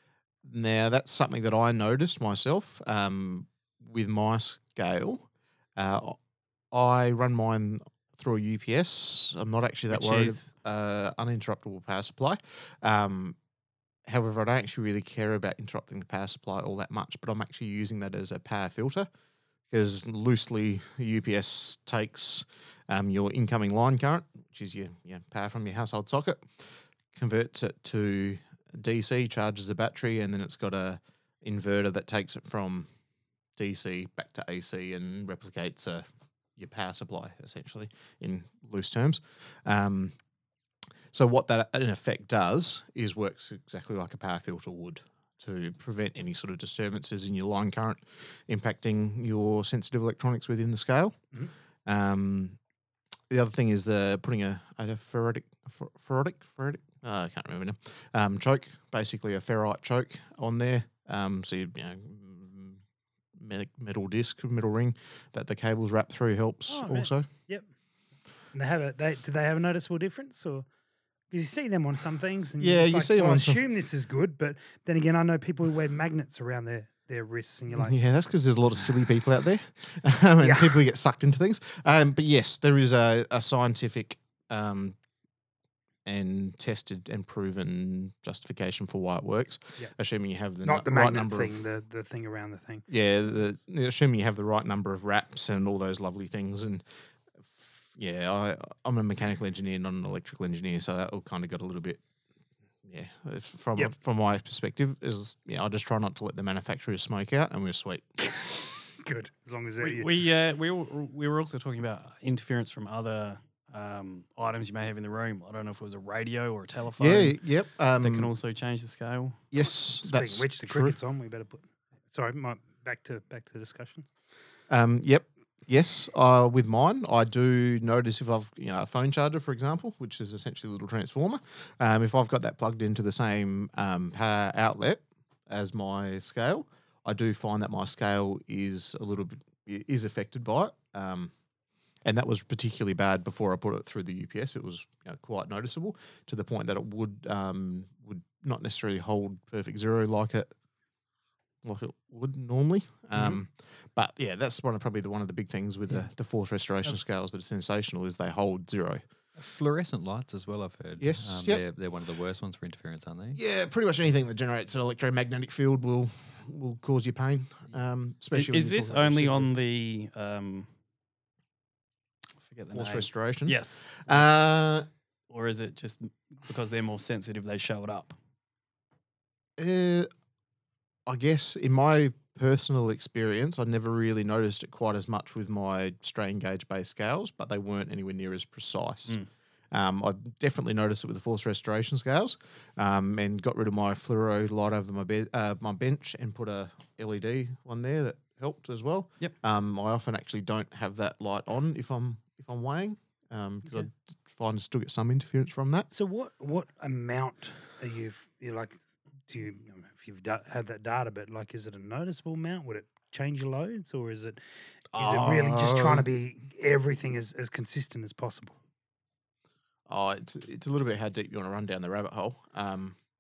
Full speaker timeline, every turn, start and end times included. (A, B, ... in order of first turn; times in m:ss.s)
0:00.4-0:06.2 A
0:06.7-0:13.4 A
0:09.9-0:10.5 B
0:14.1-0:19.1 A
0:19.7-0:32.9 A
0:33.6-0:36.0 A
0:36.6-0:40.2 A
0:41.1-0:51.3 A
0:51.8-0:52.6 A
0:53.3-1:02.8 A
1:03.4-1:07.3 A
1:06.7-1:07.7 C
1:08.5-1:10.7 C
1:11.3-1:18.0 C
1:12.6-1:13.6 A
1:17.8-1:25.0 A
1:20.4-1:20.8 C
1:26.0-1:31.5 A
1:30.6-1:32.9 C
1:32.9-1:36.8 A
1:37.5-1:42.0 A
1:42.8-1:48.2 A
1:49.0-1:50.1 C
1:49.8-1:57.4 B
1:57.0-1:58.3 A
1:58.0-1:59.4 B
1:59.5-2:01.0 A
2:00.0-2:04.1 C
2:04.7-2:21.3 A
2:22.0-2:30.5 A
2:31.6-2:39.0 A
2:39.4-2:43.4 D
2:41.0-2:41.6 A
2:43.4-2:49.5 A
2:48.3-2:50.7 B
2:52.4-2:54.2 B
2:52.7-2:54.9 A
2:55.3-2:58.2 B
2:59.6-3:00.1 A
3:01.1-3:09.2 A
3:09.7-3:25.9 A
3:25.9-3:28.8 C
3:29.3-3:34.4 C
3:34.9-3:36.1 A
3:35.0-3:38.6 C
3:39.9-3:43.0 A